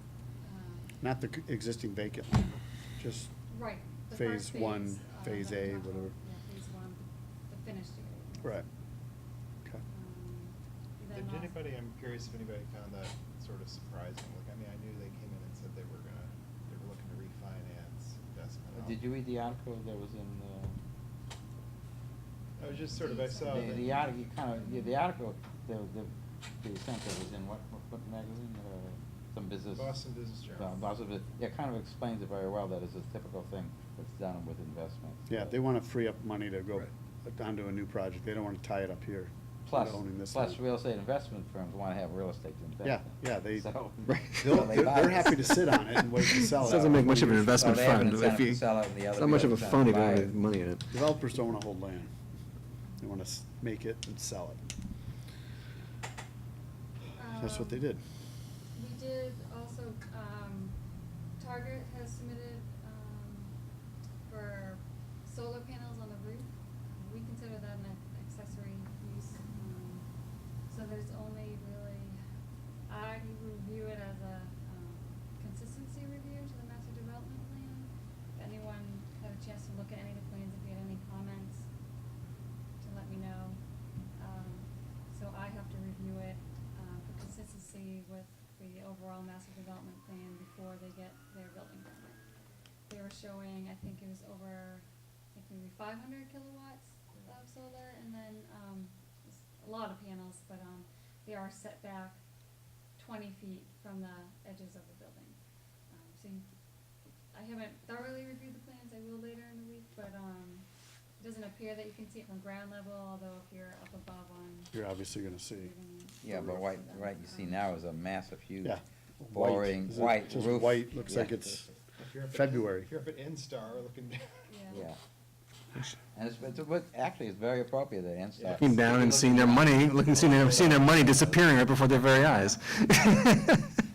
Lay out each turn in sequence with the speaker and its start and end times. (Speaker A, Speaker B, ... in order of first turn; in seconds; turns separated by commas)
Speaker A: 0.4-1.0, Speaker B: 1.0-3.3, Speaker A: 3.5-8.7, Speaker B: 4.1-6.1, Speaker A: 9.9-11.7, Speaker C: 11.1-19.0, Speaker D: 18.7-20.8, Speaker C: 22.6-24.1, Speaker A: 22.7-25.0, Speaker D: 23.4-29.9, Speaker C: 29.7-30.8, Speaker D: 30.5-35.5, Speaker B: 35.3-40.6, Speaker D: 39.6-45.6, Speaker B: 42.8-43.7, Speaker E: 44.1-44.5, Speaker B: 44.4-48.2, Speaker E: 46.4-48.6, Speaker D: 47.5-50.3, Speaker E: 49.1-50.9, Speaker B: 50.9-52.1, Speaker B: 53.0-54.6, Speaker A: 57.1-57.9, Speaker B: 57.4-58.0, Speaker A: 58.8-60.8, Speaker A: 61.4-63.5, Speaker A: 64.3-70.0, Speaker A: 70.7-72.2, Speaker A: 72.9-81.7, Speaker A: 82.8-83.6, Speaker A: 84.2-92.2, Speaker A: 92.9-102.2, Speaker A: 103.0-105.3, Speaker A: 105.9-106.5, Speaker A: 107.3-110.7, Speaker A: 111.2-114.7, Speaker B: 114.7-115.7, Speaker A: 115.5-117.6, Speaker D: 116.2-118.8, Speaker B: 118.6-121.6, Speaker D: 119.3-121.7, Speaker C: 121.9-124.4, Speaker B: 122.3-122.9, Speaker A: 124.5-124.9, Speaker D: 124.7-125.0, Speaker D: 126.1-131.4, Speaker E: 128.5-133.7, Speaker C: 130.1-131.3